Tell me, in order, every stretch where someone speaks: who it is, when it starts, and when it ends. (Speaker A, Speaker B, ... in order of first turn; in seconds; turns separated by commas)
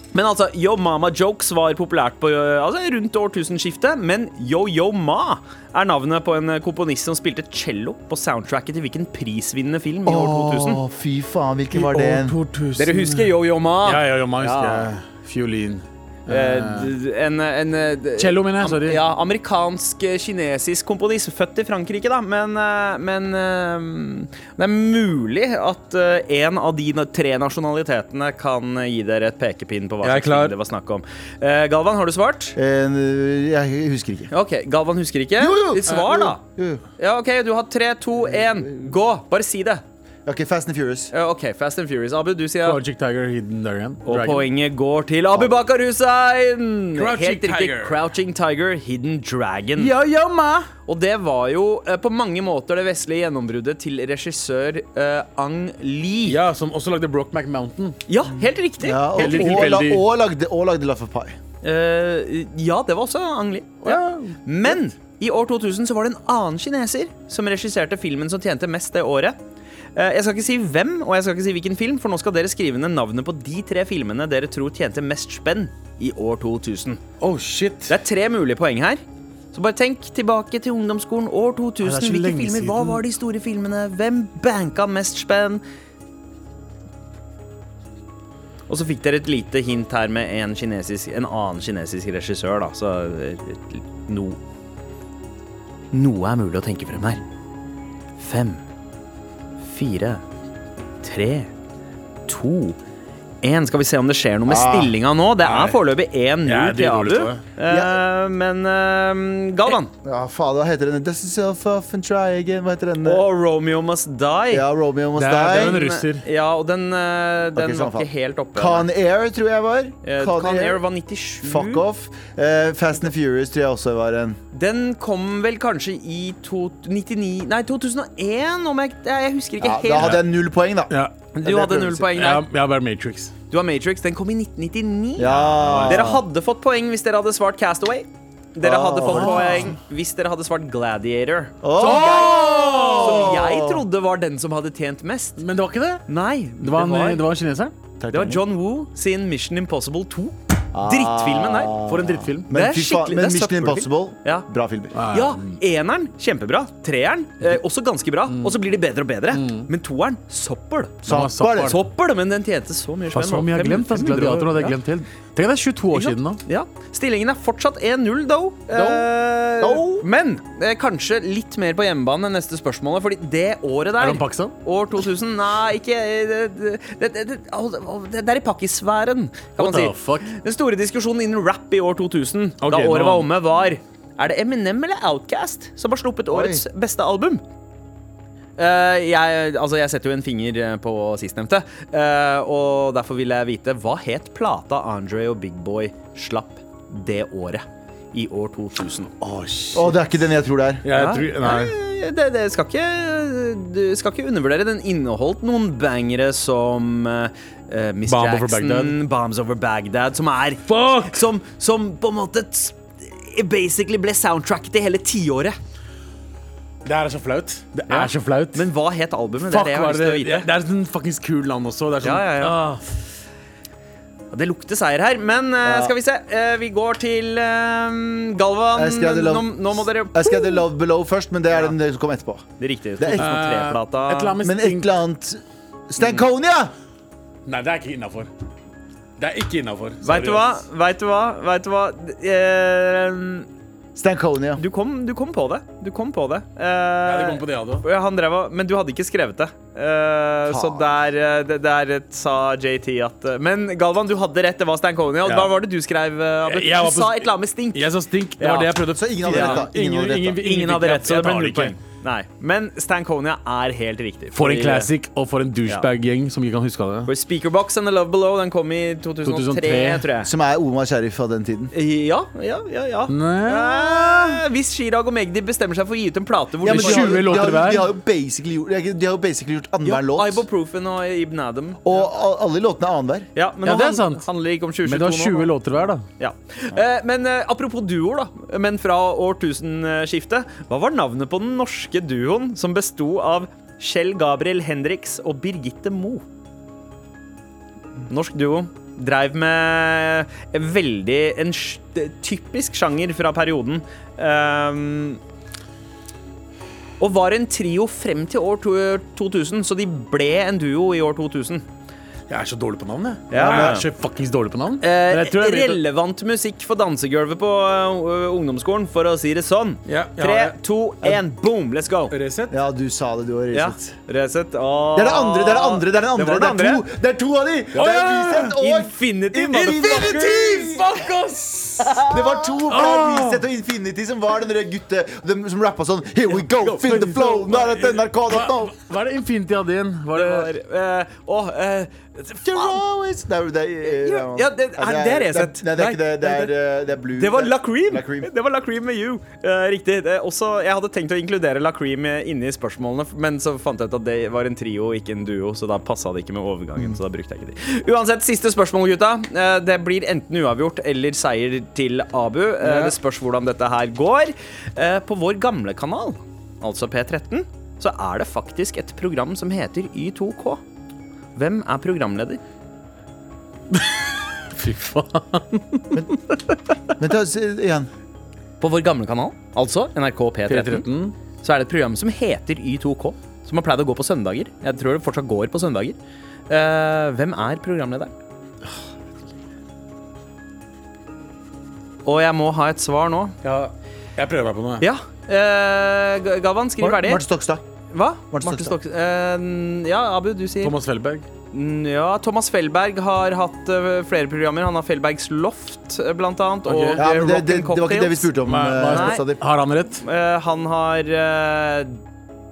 Speaker A: 0.1-10.8, Speaker B: 10.0-12.4, Speaker C: 11.7-13.3, Speaker A: 12.8-14.9, Speaker C: 13.8-16.9, Speaker A: 16.3-32.5, Speaker C: 18.2-19.0, Speaker C: 30.0-30.5, Speaker B: 32.5-34.3, Speaker A: 34.3-36.4, Speaker B: 35.4-36.8, Speaker A: 37.0-39.8, Speaker B: 38.2-38.9, Speaker B: 40.2-41.1, Speaker A: 41.1-42.8, Speaker C: 42.6-44.5, Speaker A: 44.0-49.9, Speaker C: 47.0-48.0, Speaker C: 49.8-50.7, Speaker A: 50.9-56.4, Speaker C: 56.2-58.0, Speaker A: 58.1-59.7, Speaker B: 58.3-61.4, Speaker C: 59.1-60.0, Speaker A: 61.6-69.4, Speaker C: 63.8-64.8, Speaker A: 69.9-77.0, Speaker C: 77.2-77.9, Speaker A: 77.9-79.0, Speaker A: 79.5-85.6, Speaker C: 81.8-83.0, Speaker A: 88.7-94.4, Speaker A: 95.9-97.2, Speaker A: 98.2-98.6, Speaker A: 99.6-100.2, Speaker A: 101.0-101.5, Speaker A: 102.3-102.8, Speaker A: 103.4-109.9, Speaker B: 104.5-105.0, Speaker C: 105.4-105.8, Speaker C: 106.4-107.4, Speaker B: 107.7-108.0, Speaker B: 110.0-113.2, Speaker A: 113.0-114.7, Speaker B: 114.5-115.8, Speaker C: 115.2-116.2, Speaker A: 115.3-118.9, Speaker B: 117.5-120.8, Speaker A: 120.0-121.8, Speaker B: 121.4-124.4, Speaker A: 124.5-130.2, Speaker B: 129.6-132.0, Speaker C: 130.9-131.2, Speaker A: 131.3-132.4, Speaker C: 132.0-133.3, Speaker A: 133.5-145.4, Speaker B: 135.2-136.2, Speaker C: 135.3-136.1, Speaker B: 138.6-139.8, Speaker C: 139.0-139.7, Speaker B: 141.6-143.8, Speaker C: 141.8-143.3, Speaker C: 145.4-146.0, Speaker A: 146.1-147.2, Speaker C: 146.6-147.7, Speaker B: 148.0-148.4, Speaker A: 148.1-151.7, Speaker B: 150.7-155.0, Speaker C: 151.8-152.5, Speaker A: 152.5-154.5, Speaker C: 154.9-155.6, Speaker A: 155.1-164.7, Speaker C: 159.3-159.7, Speaker B: 161.0-161.8, Speaker C: 161.1-161.8, Speaker C: 163.1-166.4, Speaker A: 165.9-187.4, Speaker C: 174.0-174.5, Speaker C: 179.6-180.3, Speaker C: 182.6-183.3, Speaker B: 186.3-186.6, Speaker A: 188.6-199.1, Speaker C: 199.2-199.9, Speaker B: 199.7-200.8, Speaker C: 200.8-201.8, Speaker A: 200.9-215.6, Speaker C: 208.1-209.0, Speaker C: 210.7-211.3, Speaker C: 216.8-218.7, Speaker A: 217.9-220.5, Speaker C: 219.4-222.8, Speaker A: 222.0-222.6, Speaker A: 224.3-230.6, Speaker B: 225.6-225.9, Speaker B: 228.7-233.3, Speaker A: 232.6-234.4, Speaker C: 233.2-234.9, Speaker B: 234.4-236.7, Speaker C: 237.4-238.3, Speaker C: 239.2-240.6, Speaker A: 240.0-243.5, Speaker B: 243.9-244.6, Speaker A: 244.6-259.7, Speaker C: 247.1-247.8, Speaker B: 250.5-251.0, Speaker C: 255.2-255.5, Speaker C: 256.4-261.8, Speaker B: 258.9-260.4, Speaker A: 260.4-264.9, Speaker C: 264.3-267.1, Speaker A: 267.1-270.3, Speaker C: 269.2-270.1, Speaker B: 270.2-271.7, Speaker A: 271.7-277.4, Speaker C: 273.1-274.4, Speaker B: 276.6-280.4, Speaker C: 276.6-277.9, Speaker A: 279.8-282.1, Speaker B: 281.8-283.3, Speaker A: 283.3-285.5, Speaker C: 283.6-284.3, Speaker C: 284.8-286.1, Speaker A: 286.2-296.2, Speaker A: 298.1-305.2, Speaker A: 307.0-311.6, Speaker C: 312.3-315.8, Speaker A: 313.3-313.8, Speaker B: 313.3-313.8, Speaker A: 314.8-322.1, Speaker C: 319.9-321.2, Speaker C: 322.1-322.6, Speaker B: 322.5-324.0, Speaker A: 323.5-326.9, Speaker B: 324.9-330.9, Speaker C: 327.7-328.6, Speaker A: 328.4-330.6, Speaker C: 329.9-332.0, Speaker A: 331.8-332.5, Speaker B: 332.1-338.8, Speaker C: 332.7-333.4, Speaker C: 336.4-340.5, Speaker A: 340.1-342.8, Speaker B: 342.4-348.3, Speaker A: 343.8-346.5, Speaker A: 347.1-370.6, Speaker C: 362.6-362.9, Speaker A: 371.4-372.4, Speaker C: 373.7-376.6, Speaker B: 376.9-377.9, Speaker A: 378.6-380.8, Speaker C: 380.5-381.1, Speaker A: 381.4-386.0, Speaker A: 386.5-388.1, Speaker A: 392.0-393.4, Speaker C: 393.4-394.9, Speaker A: 394.8-397.2, Speaker B: 396.8-397.6, Speaker A: 397.9-400.7, Speaker B: 398.3-398.7, Speaker C: 400.6-401.2, Speaker A: 401.5-408.3, Speaker C: 406.6-407.0, Speaker B: 406.9-409.4, Speaker C: 408.5-410.0, Speaker A: 408.9-409.2, Speaker A: 410.0-412.0